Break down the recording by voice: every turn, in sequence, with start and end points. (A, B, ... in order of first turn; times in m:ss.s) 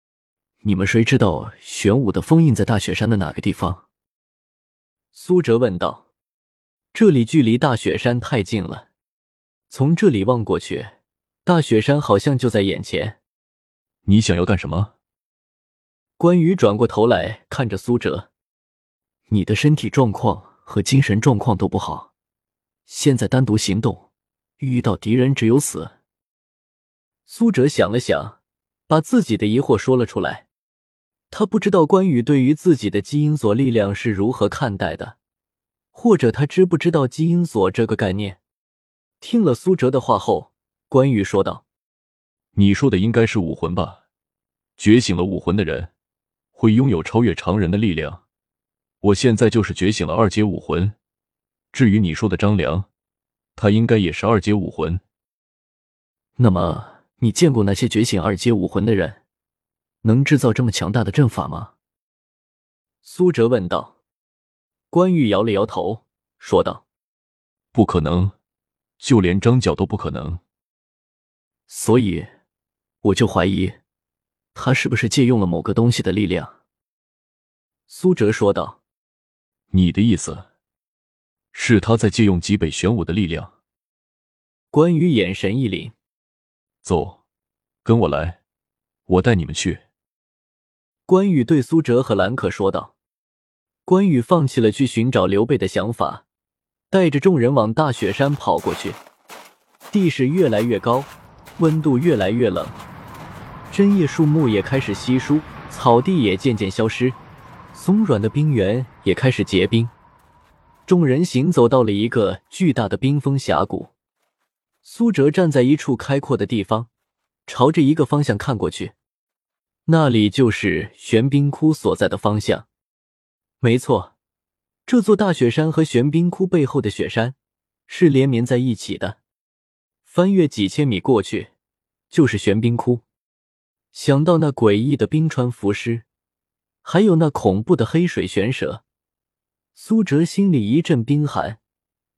0:00.6-0:03.8 A
0:05.1-0:06.0 A
0:06.9-0:08.9 A
0:09.7-0:13.2 A
0:14.1-0:14.9 B
0:16.2-0:18.3 A
0:19.3-0:22.1 A
0:22.9-0:24.1 A
0:24.6-0:26.0 A
0:27.3-0:30.5 A
0:31.3-0:35.2 A
0:35.9-0:38.4 A
0:39.2-0:41.6 A
0:42.6-0:44.0 B
0:44.8-0:45.9 B
0:46.6-0:48.2 B
0:49.0-0:50.9 B
0:51.7-0:52.8 B
0:53.6-0:55.0 B
0:56.4-0:59.2 A
1:00.0-1:01.7 A
1:03.0-1:04.0 A
1:04.9-1:06.8 A
1:07.7-1:08.3 B
1:09.0-1:10.4 B
1:11.7-1:12.3 A
1:13.0-1:13.8 A
1:14.5-1:16.6 A
1:17.9-1:18.8 A
1:19.7-1:20.4 B
1:21.5-1:23.5 B
1:24.7-1:25.9 A
1:26.8-1:27.2 B
1:27.8-1:28.4 B
1:29.1-1:29.8 B
1:31.1-1:32.9 A
1:33.8-1:36.2 A
1:36.9-1:39.0 A
1:39.9-1:42.8 A
1:43.7-1:47.2 A
1:47.7-1:49.9 A
1:50.8-1:53.9 A
1:54.8-1:56.9 A
1:57.4-1:58.9 A
1:59.8-2:02.7 A
2:03.6-2:04.1 A
2:04.8-2:07.4 A
2:07.9-2:09.2 A
2:10.0-2:11.5 A
2:12.1-2:13.0 A
2:13.9-2:16.0 A
2:16.8-2:18.8 A
2:19.7-2:21.6 A